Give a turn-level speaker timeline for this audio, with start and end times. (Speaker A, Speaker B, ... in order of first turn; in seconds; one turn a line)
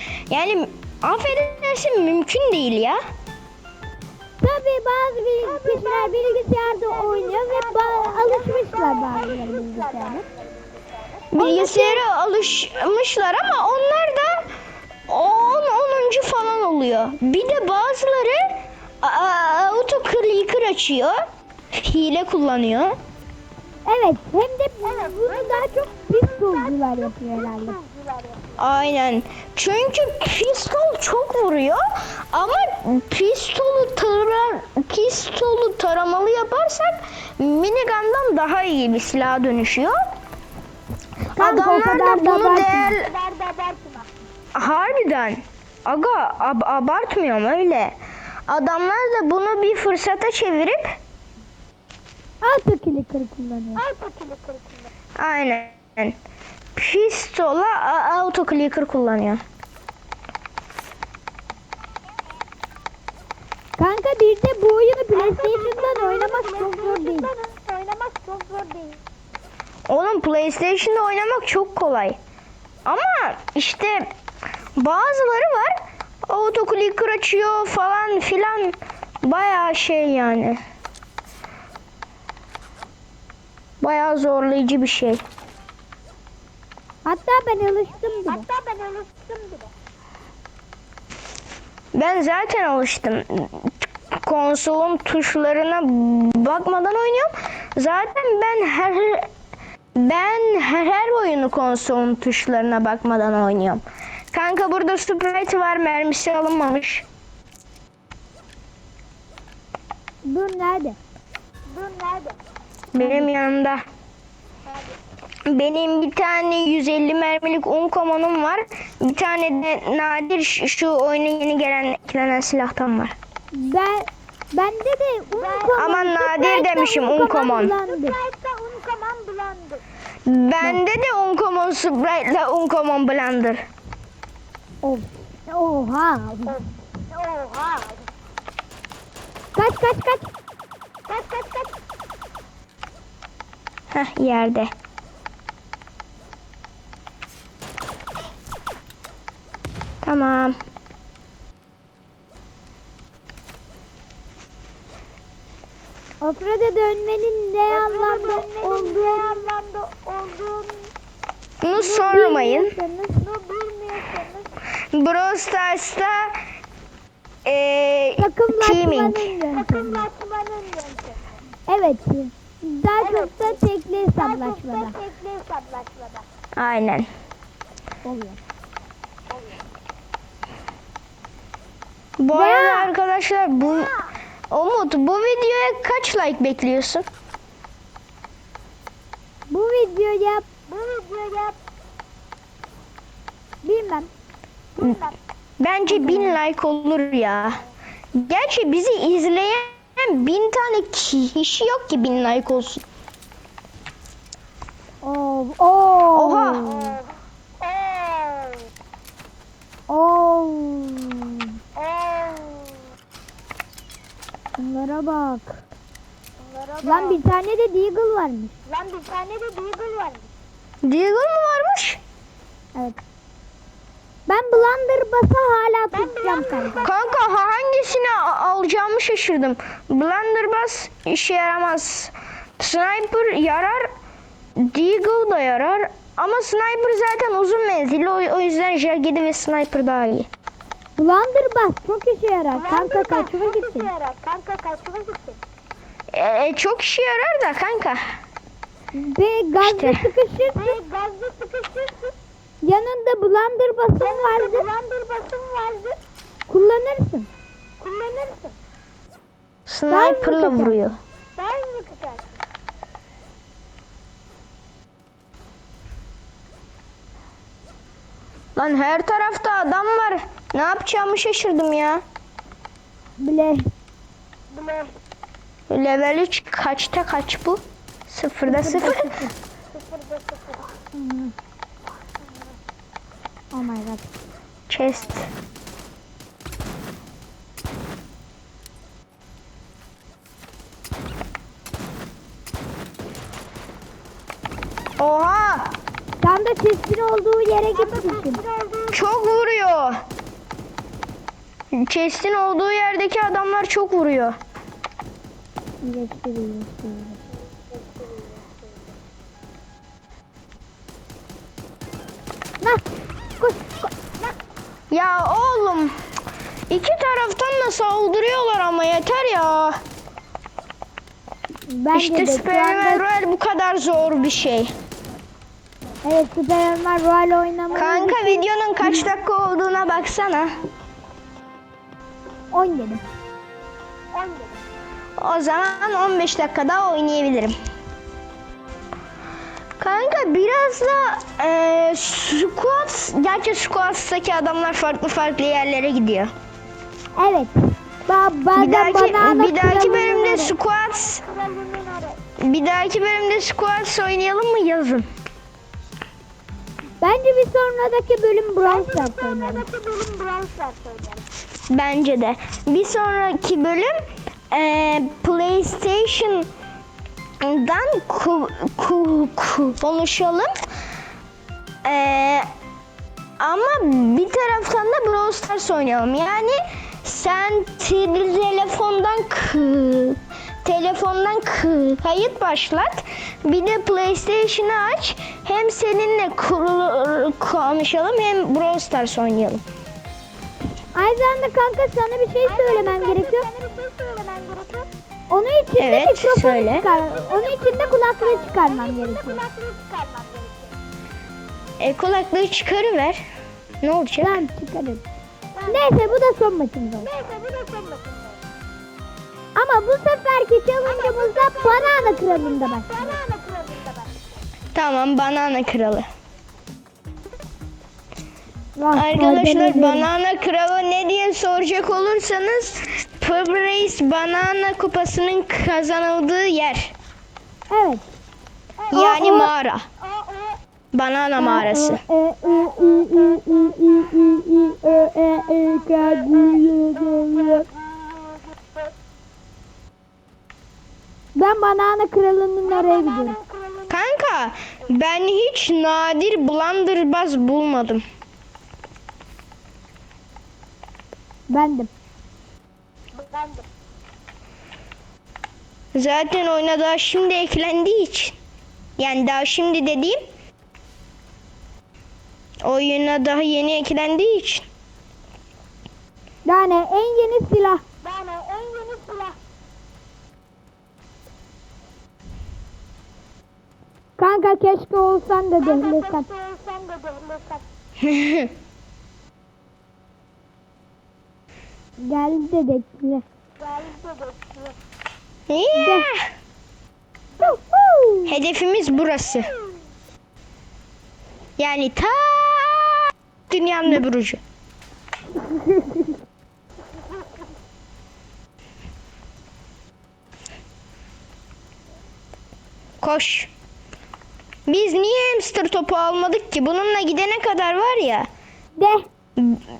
Speaker A: 0.3-3.0
Speaker B: 4.4-10.2
Speaker C: 5.4-11.3
Speaker A: 11.3-14.5
Speaker B: 11.4-12.0
Speaker A: 15.1-21.2
Speaker A: 21.7-23.0
Speaker B: 23.9-27.8
Speaker C: 24.9-26.7
Speaker C: 27.4-28.6
Speaker A: 28.6-40.0
Speaker A: 41.4-43.1
Speaker B: 41.4-43.0
Speaker C: 43.0-44.1
Speaker A: 44.5-48.0
Speaker A: 48.5-51.0
Speaker B: 52.4-53.8
Speaker C: 53.8-54.9
Speaker A: 55.2-56.1
Speaker A: 56.8-59.4
Speaker B: 63.8-67.3
Speaker C: 65.2-69.0
Speaker A: 69.9-72.2
Speaker A: 72.8-74.1
Speaker A: 74.8-80.6
Speaker A: 83.8-85.2
Speaker B: 87.1-88.5
Speaker C: 88.3-89.7
Speaker A: 91.9-99.3
Speaker A: 100.0-107.0
Speaker B: 110.3-111.0
Speaker C: 111.7-112.4
Speaker A: 112.9-113.8
Speaker B: 113.0-113.3
Speaker C: 114.7-115.0
Speaker A: 115.5-123.1
Speaker B: 123.5-128.2
Speaker C: 125.3-125.8
Speaker A: 125.8-127.8
Speaker C: 127.8-129.8
Speaker A: 130.3-133.6
Speaker B: 134.8-136.6
Speaker C: 137.1-138.1
Speaker B: 139.6-140.3
Speaker C: 141.1-141.7
Speaker A: 143.9-144.7
Speaker A: 150.0-150.6
Speaker B: 156.2-159.4
Speaker C: 157.7-160.9
Speaker A: 161.6-162.7
Speaker B: 161.7-163.2
Speaker C: 163.2-164.5
Speaker A: 164.9-166.4
Speaker A: 167.4-169.3
Speaker B: 168.2-170.1
Speaker C: 169.5-171.4
Speaker B: 171.7-175.0
Speaker C: 173.0-173.6
Speaker C: 174.2-176.2
Speaker A: 176.6-177.1
Speaker B: 178.0-178.4
Speaker A: 182.2-183.9
Speaker B: 182.3-182.9
Speaker C: 183.6-184.0
Speaker A: 184.5-187.1
Speaker B: 189.5-190.4
Speaker C: 190.7-191.6
Speaker B: 193.6-194.1
Speaker C: 194.8-195.2
Speaker A: 195.6-197.6
Speaker B: 195.9-196.4
Speaker A: 198.1-202.8
Speaker B: 205.0-207.0
Speaker A: 206.1-206.7
Speaker C: 207.6-208.5
Speaker B: 209.9-211.5
Speaker C: 211.8-212.7
Speaker B: 214.6-215.6
Speaker C: 216.4-217.2
Speaker B: 216.8-218.5
Speaker C: 218.7-220.3
Speaker A: 220.8-222.0
Speaker B: 222.8-223.0
Speaker B: 224.3-226.9
Speaker C: 225.9-226.8
Speaker A: 226.8-233.9
Speaker A: 234.6-240.3
Speaker B: 241.0-243.9
Speaker C: 242.6-245.4
Speaker A: 246.1-248.2
Speaker B: 248.9-250.8
Speaker A: 249.6-250.1
Speaker C: 250.6-252.1
Speaker B: 252.6-254.7
Speaker C: 254.0-256.0
Speaker B: 256.5-257.3
Speaker C: 257.8-258.6
Speaker A: 259.7-261.0
Speaker B: 259.9-260.9
Speaker C: 261.4-262.4
Speaker A: 268.6-272.0
Speaker B: 273.2-273.7
Speaker C: 274.5-274.9
Speaker A: 275.7-279.1
Speaker B: 278.5-279.3
Speaker C: 279.7-280.6
Speaker B: 280.9-281.3
Speaker B: 283.5-284.1
Speaker A: 284.7-285.3
Speaker A: 295.0-295.7
Speaker B: 296.2-298.4
Speaker C: 297.8-299.0
Speaker A: 298.9-300.0
Speaker A: 301.7-304.4
Speaker B: 305.8-307.2
Speaker C: 307.7-308.7
Speaker B: 313.4-313.9
Speaker A: 314.9-315.9
Speaker A: 316.7-319.8
Speaker B: 321.7-323.0
Speaker A: 321.9-324.7
Speaker B: 326.0-329.1
Speaker A: 327.7-330.6
Speaker B: 332.5-333.0
Speaker C: 334.1-334.6
Speaker A: 335.2-337.6
Speaker A: 339.8-346.3
Speaker B: 347.2-347.5
Speaker B: 348.1-350.6
Speaker A: 348.6-351.2
Speaker C: 351.1-352.2
Speaker A: 352.4-355.1
Speaker B: 357.0-359.7
Speaker C: 358.7-361.2
Speaker A: 361.7-364.0
Speaker A: 364.5-366.5
Speaker A: 367.4-370.5
Speaker A: 371.8-372.5
Speaker A: 373.4-389.6
Speaker B: 390.9-393.4
Speaker C: 392.5-394.9
Speaker B: 395.3-399.4
Speaker A: 395.8-396.9
Speaker C: 397.0-400.7
Speaker A: 401.8-403.2
Speaker A: 403.8-404.4
Speaker B: 404.2-405.0
Speaker B: 405.7-407.1
Speaker C: 407.0-408.4
Speaker B: 409.6-413.2
Speaker C: 410.9-414.2
Speaker A: 414.7-416.1
Speaker B: 418.8-420.1
Speaker A: 418.9-426.9
Speaker B: 427.7-428.1
Speaker C: 428.9-429.2
Speaker A: 428.9-429.9
Speaker B: 429.0-429.5
Speaker C: 430.2-430.4
Speaker A: 430.9-432.0
Speaker B: 431.4-437.7
Speaker B: 441.4-443.4
Speaker A: 443.9-448.0
Speaker B: 451.5-451.9
Speaker C: 453.2-453.6
Speaker A: 455.9-458.4
Speaker A: 459.0-460.2
Speaker A: 462.6-464.7
Speaker B: 466.5-467.8
Speaker C: 468.0-469.4
Speaker B: 474.2-476.3
Speaker C: 475.7-477.6
Speaker A: 478.0-478.5
Speaker B: 482.0-483.2
Speaker C: 483.6-484.7
Speaker A: 485.5-486.3
Speaker B: 485.8-486.1
Speaker B: 487.4-488.3
Speaker A: 488.3-489.5
Speaker A: 491.6-494.4
Speaker B: 495.5-496.0
Speaker A: 503.0-503.5
Speaker A: 504.7-508.3
Speaker B: 508.8-509.1
Speaker A: 509.4-509.6